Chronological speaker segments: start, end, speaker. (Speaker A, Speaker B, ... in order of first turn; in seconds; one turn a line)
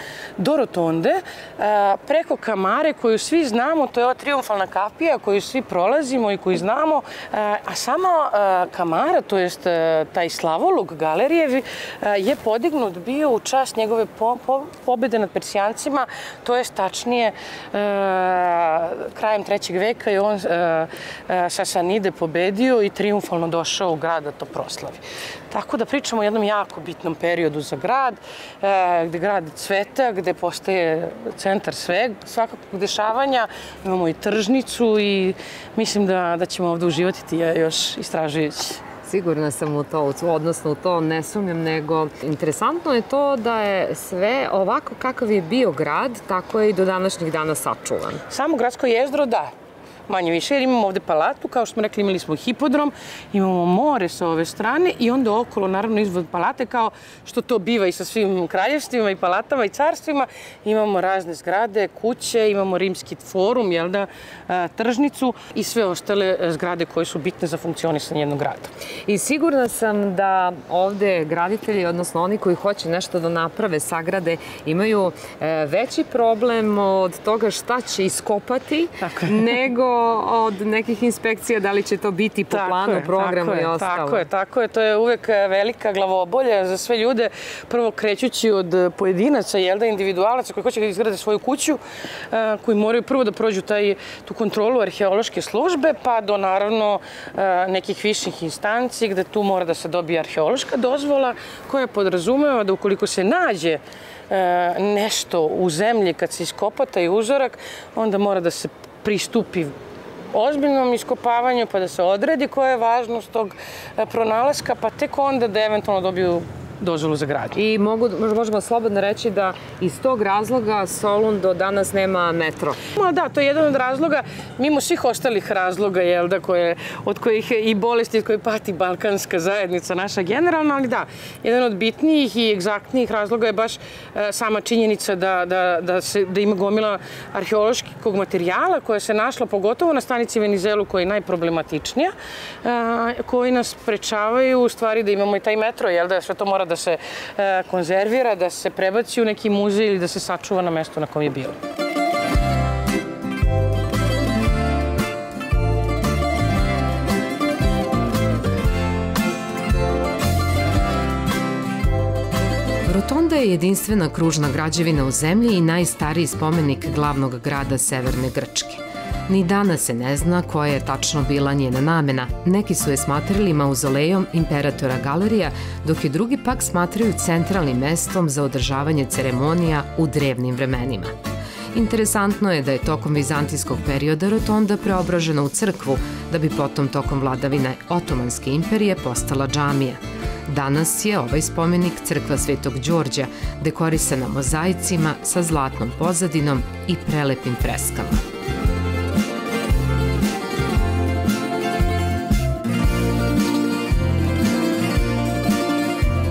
Speaker A: 0.4-38.8
Speaker B: 39.1-48.2
Speaker A: 48.3-49.5
Speaker A: 50.1-68.7
Speaker B: 69.1-84.3
Speaker A: 79.1-79.6
Speaker A: 82.5-91.8
Speaker A: 92.3-109.8
Speaker A: 110.3-117.6
Speaker B: 117.5-122.8
Speaker A: 123.0-142.1
Speaker A: 142.6-151.6
Speaker C: 162.9-181.1
Speaker C: 181.7-198.2